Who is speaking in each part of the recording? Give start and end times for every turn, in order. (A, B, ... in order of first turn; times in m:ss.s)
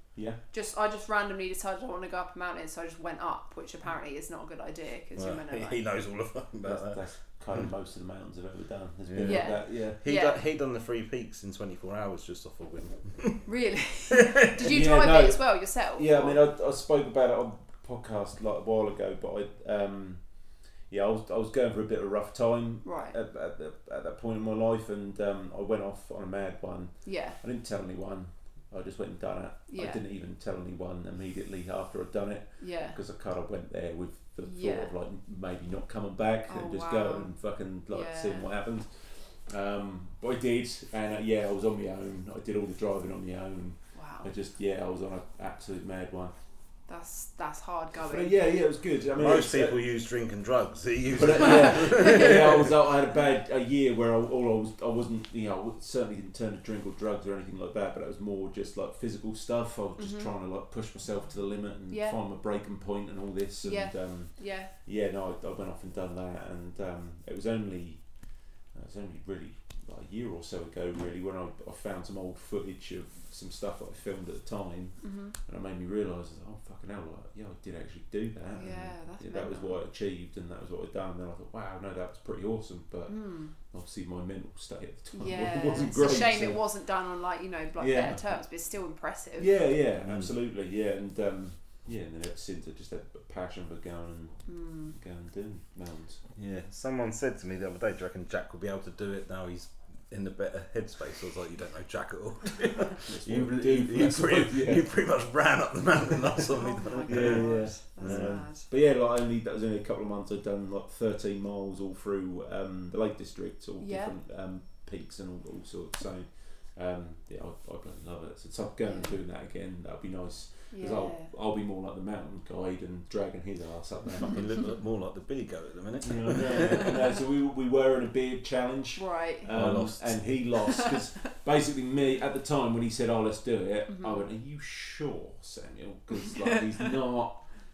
0:00.5-0:05.8 A
0:05.1-0:07.0 B
0:06.6-0:10.0 C
0:09.1-0:13.5 B
0:09.2-0:10.4 A
0:13.4-0:16.4 A
0:14.4-0:14.7 B
0:14.6-0:46.3 C
0:22.8-0:23.2 A
0:27.0-0:27.4 A
0:29.7-0:30.0 A
0:32.6-0:33.0 A
0:34.4-0:34.9 A
0:36.5-0:37.3 A
0:37.9-0:38.5 A
0:43.9-0:44.3 A
0:46.9-0:48.4 A
0:47.9-0:49.8 C
0:49.2-0:52.7 B
0:51.1-1:26.6 C
0:51.4-0:52.5 A
1:00.0-1:00.3 A
1:01.9-1:02.2 A
1:03.6-1:04.7 A
1:15.0-1:15.3 A
1:18.6-1:19.8 A
1:23.1-1:23.5 A
1:25.1-1:29.5 A
1:27.8-1:28.2 C
1:29.4-1:36.2 C
1:30.0-1:30.3 B
1:34.5-1:34.9 A
1:36.3-1:48.5 B
1:42.9-1:44.9 C
1:46.5-1:48.6 A
1:47.1-2:04.7 C
1:53.8-1:54.1 A
1:58.8-1:59.2 A
2:00.7-2:01.3 A
2:04.3-2:06.9 B
2:06.0-2:17.4 C
2:09.0-2:09.5 A
2:09.5-2:10.2 B
2:13.9-2:14.2 A